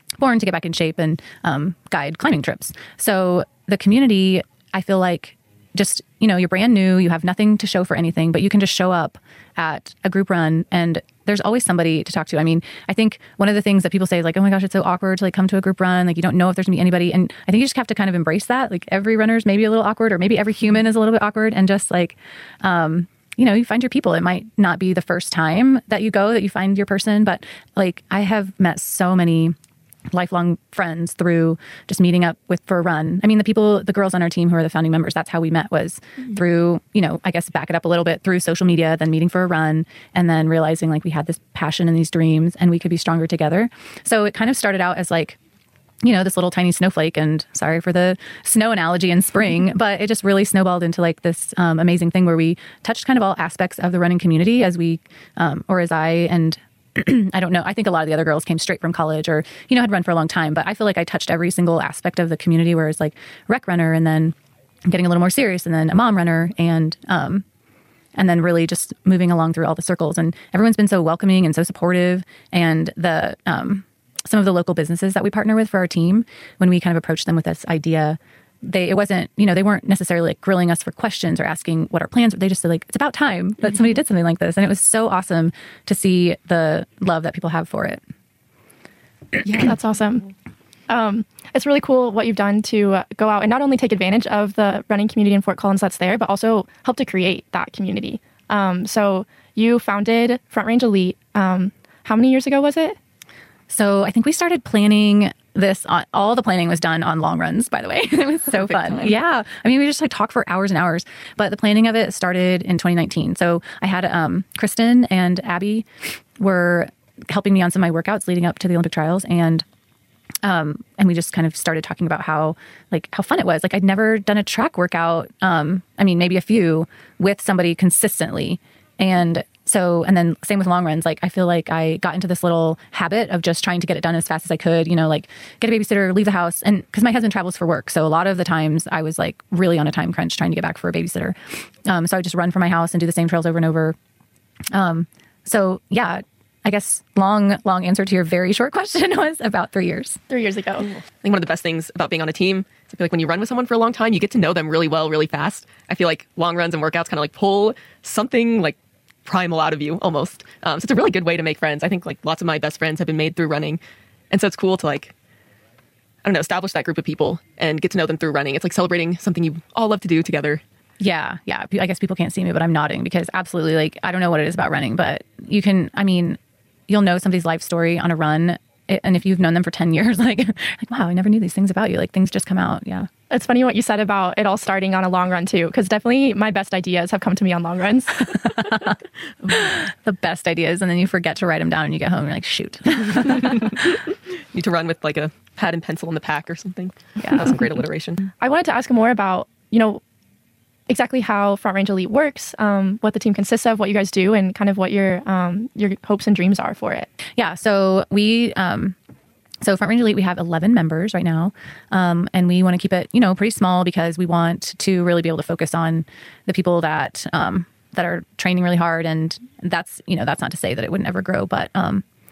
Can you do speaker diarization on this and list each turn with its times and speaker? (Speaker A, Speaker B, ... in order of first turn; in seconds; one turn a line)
Speaker A: 0.2-29.6
Speaker A: 30.1-45.4
Speaker A: 46.0-67.5
Speaker A: 68.2-88.0
Speaker B: 89.5-90.2
Speaker B: 90.9-103.0
Speaker A: 103.7-115.9
Speaker C: 108.7-109.1
Speaker A: 116.4-119.6
Speaker A: 120.4-144.0
Speaker A: 144.7-150.2
Speaker B: 150.3-150.9
Speaker C: 150.8-163.8
Speaker C: 164.3-165.1
Speaker C: 166.2-170.6
Speaker A: 171.0-176.4
Speaker A: 176.9-183.1
Speaker B: 183.3-188.3
Speaker A: 188.4-193.8
Speaker C: 194.5-198.3
Speaker B: 198.4-200.0
Speaker B: 200.9-207.1
Speaker A: 207.4-209.0
Speaker A: 209.6-222.0